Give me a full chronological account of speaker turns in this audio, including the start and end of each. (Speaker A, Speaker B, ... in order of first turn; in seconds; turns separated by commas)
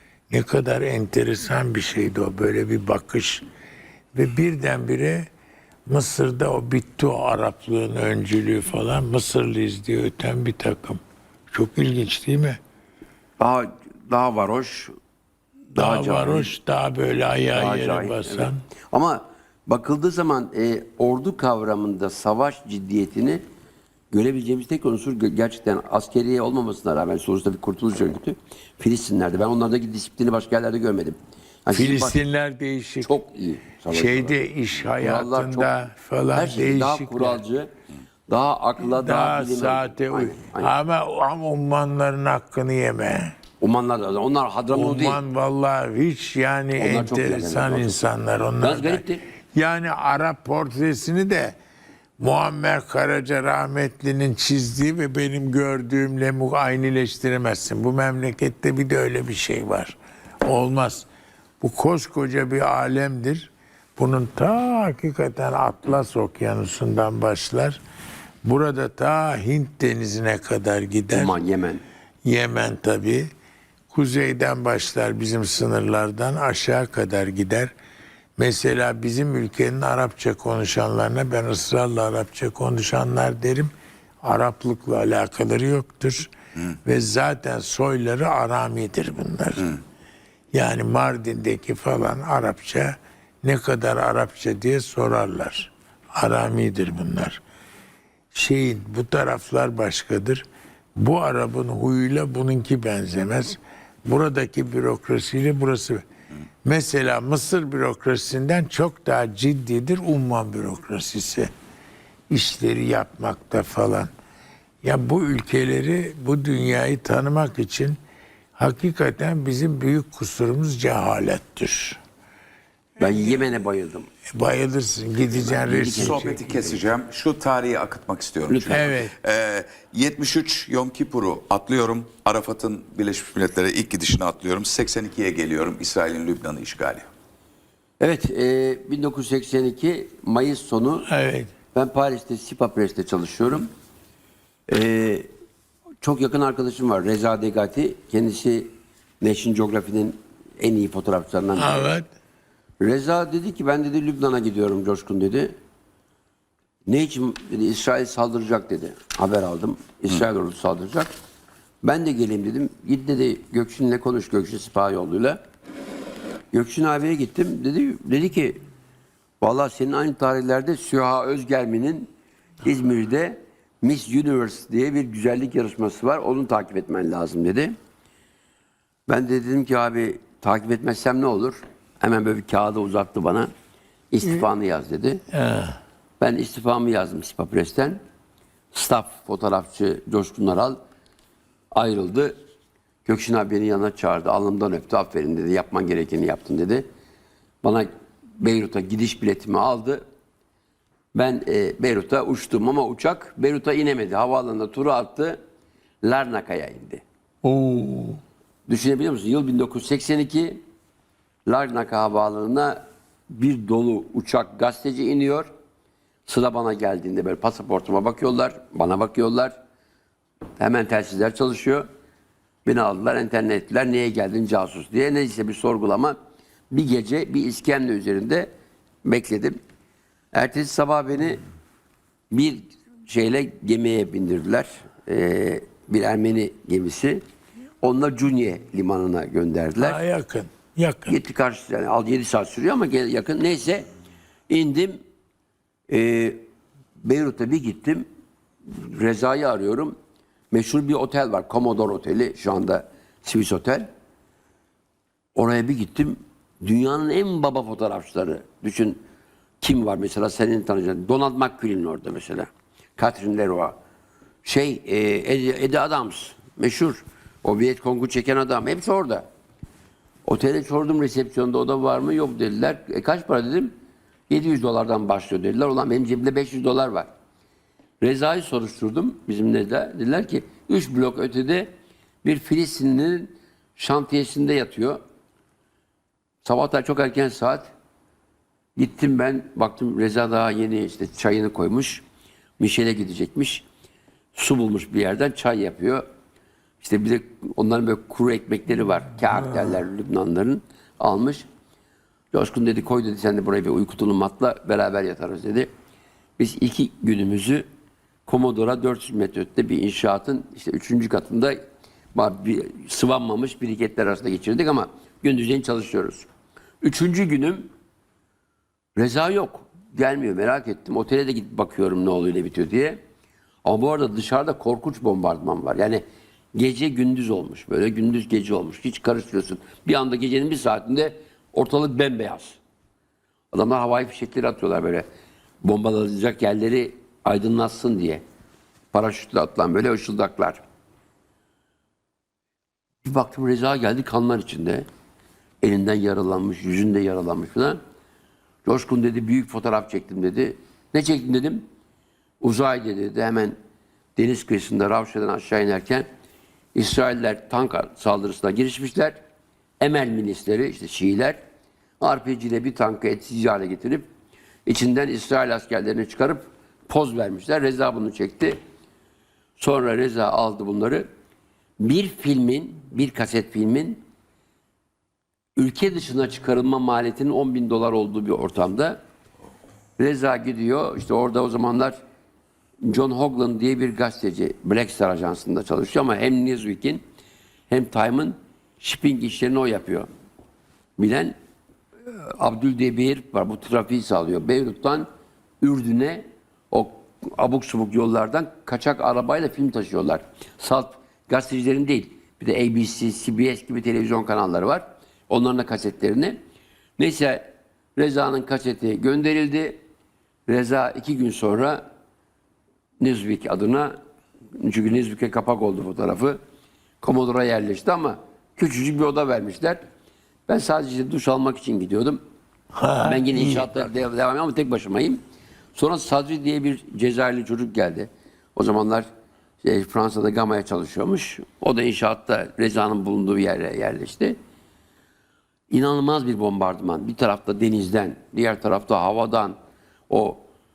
Speaker A: 0.3-3.5, Speaker A: 4.2-5.3, Speaker A: 5.9-12.6, Speaker B: 13.4-14.9, Speaker B: 15.8-16.5, Speaker A: 15.8-18.6, Speaker B: 17.5-23.4, Speaker B: 24.1-32.2, Speaker A: 31.7-33.1, Speaker B: 33.0-35.7, Speaker A: 33.9-37.4, Speaker B: 36.3-37.7, Speaker B: 38.3-40.7, Speaker A: 38.8-43.4, Speaker B: 43.6-45.2, Speaker A: 44.7-49.0, Speaker B: 46.8-48.0, Speaker B: 48.6-49.2, Speaker A: 49.5-51.6, Speaker A: 52.2-61.1, Speaker A: 61.6-67.8, Speaker A: 68.5-71.4, Speaker B: 71.1-71.8, Speaker A: 72.2-73.3, Speaker A: 73.9-77.7, Speaker A: 78.4-83.7, Speaker A: 84.2-86.3, Speaker A: 86.8-89.8, Speaker A: 90.5-97.4, Speaker A: 98.3-100.4, Speaker A: 101.0-106.0, Speaker A: 106.6-111.5, Speaker A: 112.3-114.1, Speaker A: 114.8-118.0, Speaker A: 118.6-122.0, Speaker A: 123.0-123.5, Speaker B: 123.0-124.1, Speaker A: 124.3-126.4, Speaker B: 125.3-126.8, Speaker C: 126.0-137.1, Speaker B: 128.5-129.0, Speaker A: 128.7-129.1, Speaker B: 138.0-141.1, Speaker A: 141.1-141.5, Speaker B: 141.7-143.7, Speaker B: 144.7-145.3, Speaker B: 146.0-148.7, Speaker B: 149.2-151.9, Speaker A: 151.6-152.1, Speaker B: 152.8-155.5, Speaker B: 156.9-161.1, Speaker B: 161.8-165.4, Speaker B: 166.5-168.6, Speaker B: 169.4-172.1, Speaker B: 172.6-177.7, Speaker B: 179.1-183.5, Speaker B: 184.1-185.2, Speaker A: 185.3-185.8, Speaker B: 186.2-188.0, Speaker B: 188.7-190.8, Speaker B: 191.7-192.3, Speaker B: 193.1-196.9, Speaker B: 197.6-197.9, Speaker B: 198.4-200.0, Speaker B: 201.1-205.4, Speaker B: 206.0-207.0, Speaker A: 207.4-208.2, Speaker B: 208.7-210.6, Speaker B: 211.5-215.5, Speaker B: 216.3-219.6, Speaker B: 220.6-221.9, Speaker B: 222.7-226.2, Speaker B: 226.7-228.5, Speaker B: 229.0-229.6, Speaker B: 230.3-231.4, Speaker B: 232.3-237.2, Speaker B: 237.8-240.0, Speaker A: 239.8-241.2, Speaker B: 241.1-243.9, Speaker B: 244.5-245.0, Speaker B: 245.9-246.4, Speaker B: 247.0-248.1, Speaker B: 248.7-249.9, Speaker B: 250.5-253.9, Speaker B: 255.4-259.0, Speaker B: 259.6-263.8, Speaker B: 264.4-269.2, Speaker B: 270.3-273.7, Speaker B: 274.3-277.1, Speaker B: 278.0-281.7, Speaker B: 282.2-285.0, Speaker B: 286.4-287.7, Speaker B: 288.8-292.0, Speaker B: 292.6-293.6, Speaker B: 294.4-296.0, Speaker B: 296.8-301.5, Speaker B: 302.3-305.7, Speaker B: 306.4-307.7, Speaker B: 308.3-311.6, Speaker B: 312.1-316.3, Speaker B: 316.8-317.7, Speaker B: 319.0-323.0, Speaker B: 323.6-326.0, Speaker B: 326.6-332.6, Speaker B: 333.5-335.1, Speaker B: 335.6-338.2, Speaker B: 338.9-340.6, Speaker B: 343.0-344.9, Speaker B: 345.6-347.8, Speaker B: 348.6-351.7, Speaker B: 352.4-353.6, Speaker B: 354.2-356.1, Speaker B: 356.8-359.2, Speaker B: 359.8-361.4, Speaker B: 362.0-364.1, Speaker B: 364.7-368.6, Speaker B: 369.6-371.1, Speaker B: 371.8-374.0, Speaker B: 375.6-379.0, Speaker B: 380.0-382.0, Speaker B: 382.8-387.0, Speaker B: 387.7-390.1, Speaker B: 391.0-391.4, Speaker B: 392.1-395.1, Speaker B: 395.6-406.4, Speaker B: 407.0-409.8, Speaker B: 410.5-411.8, Speaker B: 413.0-413.9, Speaker B: 414.6-416.4, Speaker B: 417.0-419.8, Speaker B: 420.5-422.2, Speaker A: 422.8-423.7, Speaker B: 423.0-425.2, Speaker B: 425.8-429.1, Speaker B: 429.6-434.4, Speaker B: 435.7-439.6, Speaker B: 440.1-440.5